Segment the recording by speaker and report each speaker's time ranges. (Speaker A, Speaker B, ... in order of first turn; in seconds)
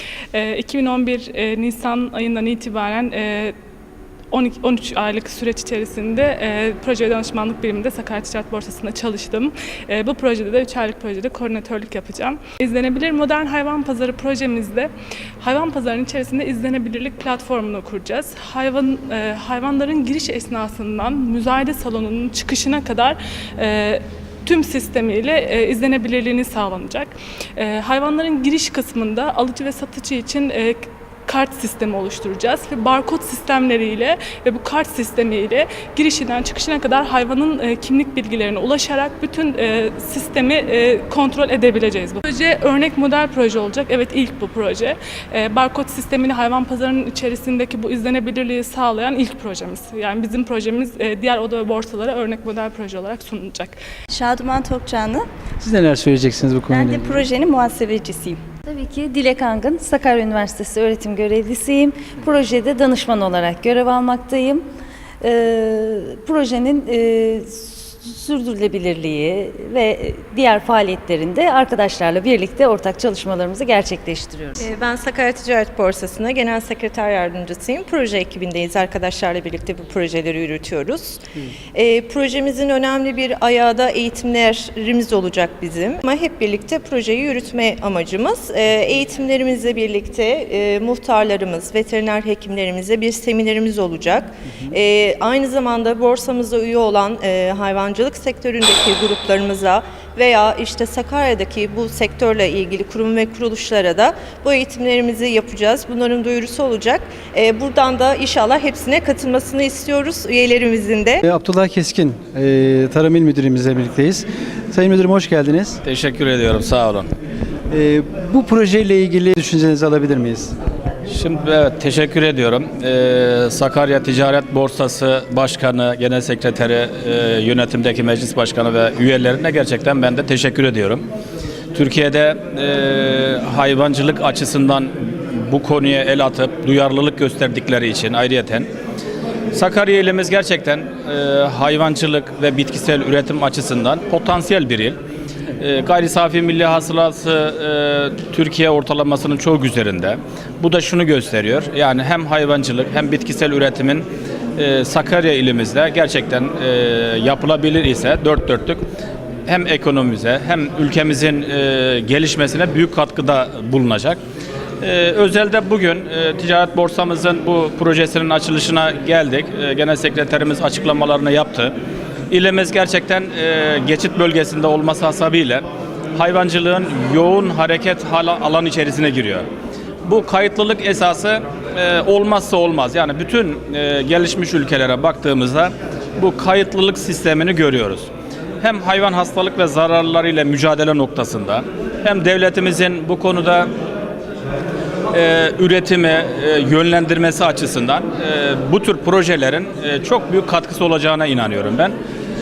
Speaker A: 0.3-3.5, 4.3-14.9, 15.4-53.8
Speaker B: 54.1-55.3, 56.7-58.4
Speaker C: 55.6-57.2, 111.2-115.8, 117.7-120.5
Speaker D: 58.7-64.6, 65.2-74.5
Speaker E: 74.6-81.2, 81.7-111.2
Speaker F: 115.8-117.1, 121.1-131.0, 131.7-138.7, 139.5-145.0, 145.6-154.1, 154.6-158.8, 159.4-164.2, 164.8-171.7, 172.3-179.4, 180.0-188.1, 188.6-193.7, 195.1-201.9